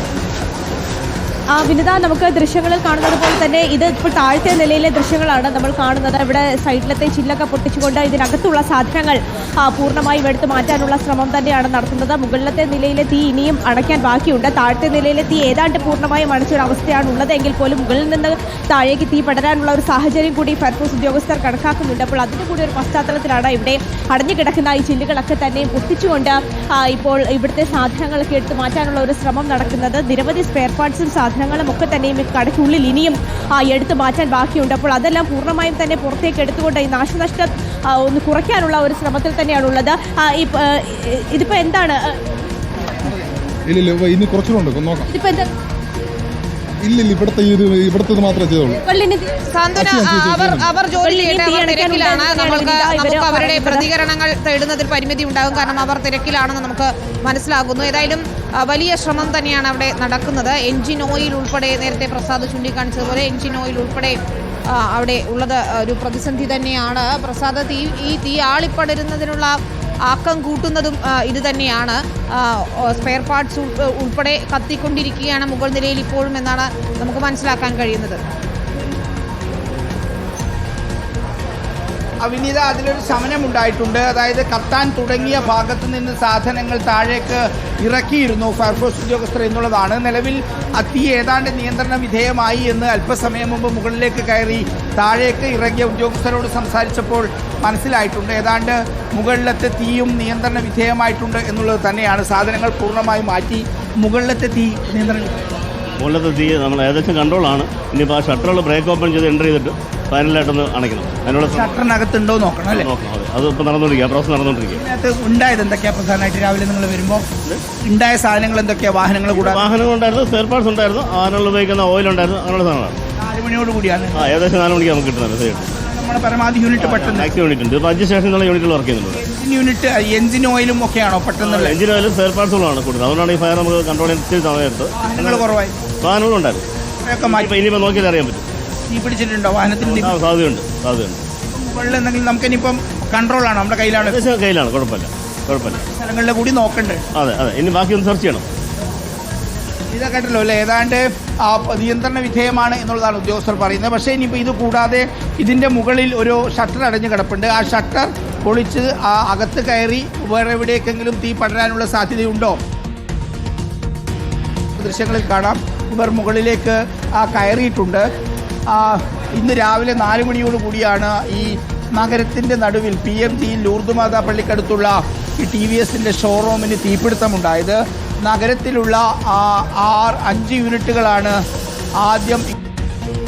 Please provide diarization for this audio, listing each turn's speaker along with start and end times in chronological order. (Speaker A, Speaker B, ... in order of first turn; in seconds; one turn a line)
Speaker A: 1.5-42.2
Speaker B: 43.7-45.1
Speaker A: 45.1-45.5
Speaker B: 46.8-48.8
Speaker A: 48.8-49.4
Speaker C: 49.5-64.2
Speaker B: 49.8-50.7
Speaker A: 50.9-53.9
Speaker C: 64.7-69.5
Speaker C: 70.1-78.2
Speaker D: 82.2-105.3
Speaker E: 106.0-111.8
Speaker D: 111.5-112.9
Speaker E: 112.7-114.8
Speaker D: 114.7-117.3
Speaker D: 117.8-119.7
Speaker E: 119.3-123.0
Speaker D: 123.2-124.3
Speaker E: 124.1-125.7
Speaker D: 125.7-127.3
Speaker E: 126.8-129.2
Speaker D: 129.1-131.8
Speaker E: 131.4-135.5
Speaker D: 134.9-135.7
Speaker E: 136.0-136.6
Speaker D: 137.0-137.6
Speaker E: 137.2-138.4
Speaker D: 138.9-140.1
Speaker E: 139.8-141.2
Speaker D: 141.5-144.2
Speaker E: 144.0-145.8
Speaker D: 145.9-147.0
Speaker E: 147.1-148.4
Speaker D: 149.9-162.6
Speaker D: 164.8-168.0
Speaker D: 168.7-181.4
Speaker D: 182.0-182.5